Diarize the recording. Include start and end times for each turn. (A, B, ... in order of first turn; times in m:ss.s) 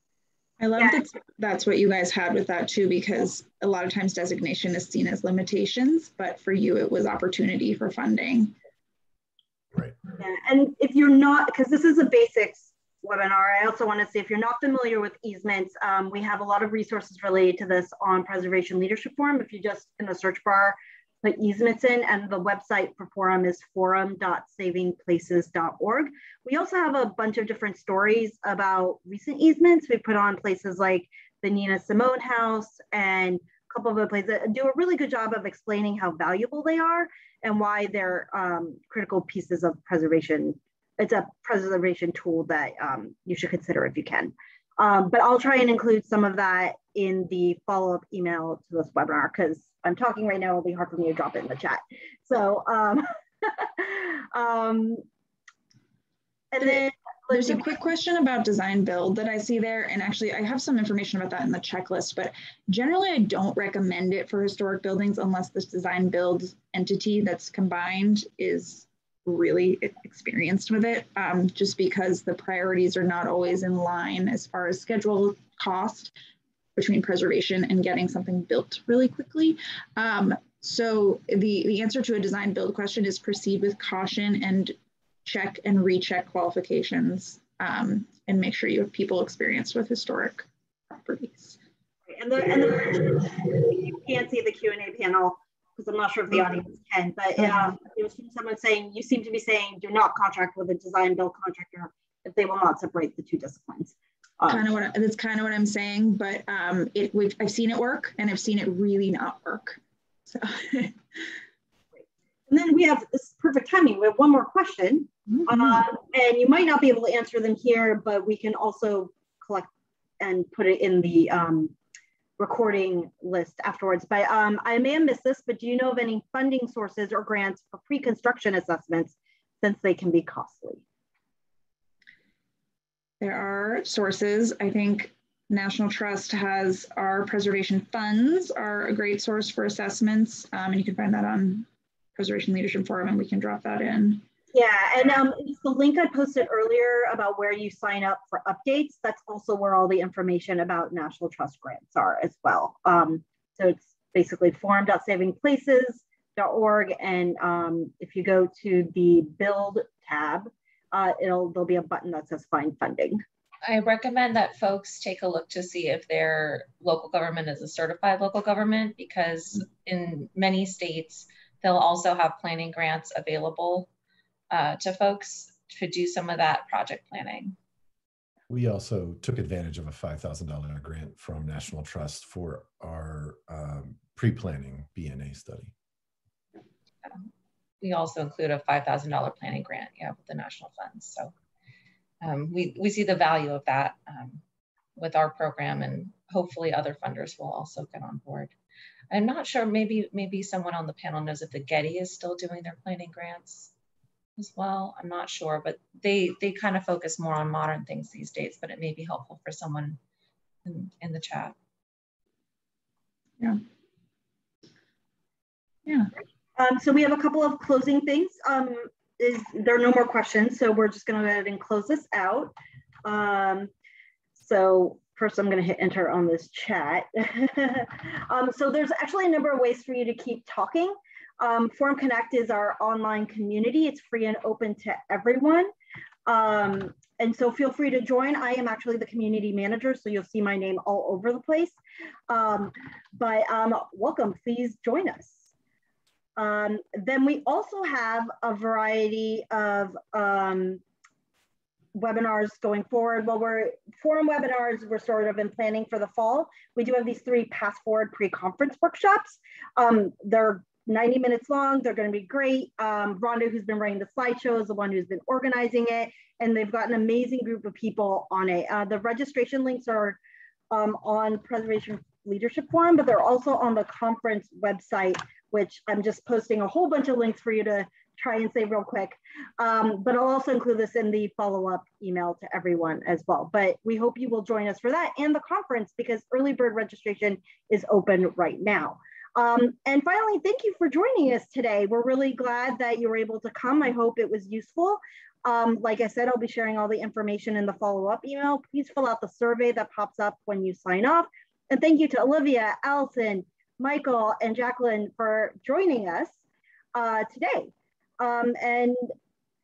0:00.6-0:08.6 A
0:10.2-0:55.0 B
0:56.5-0:57.6 B
0:56.6-1:16.1 A
1:16.8-1:31.6 A
1:32.1-1:44.7 B
1:44.5-1:51.0 A
1:52.5-1:59.7 B
2:00.2-2:01.8 B
2:02.4-2:10.8 B
2:13.2-2:24.2 A
2:24.5-2:43.2 B
2:43.6-2:53.9 C
2:54.5-2:57.6 C
2:58.5-3:05.7 D
3:07.8-3:11.3 C
3:12.2-3:14.4 C
3:15.0-3:18.5 C
3:19.1-3:23.7 C
3:24.4-3:30.0 C
3:30.6-3:31.6 C
3:36.6-3:43.7 B
3:44.4-3:55.7 B
3:56.3-4:01.8 B
4:02.3-4:05.4 B
4:06.4-4:10.8 B
4:12.0-4:30.2 B
4:30.7-5:06.3 B
5:06.9-5:09.1 B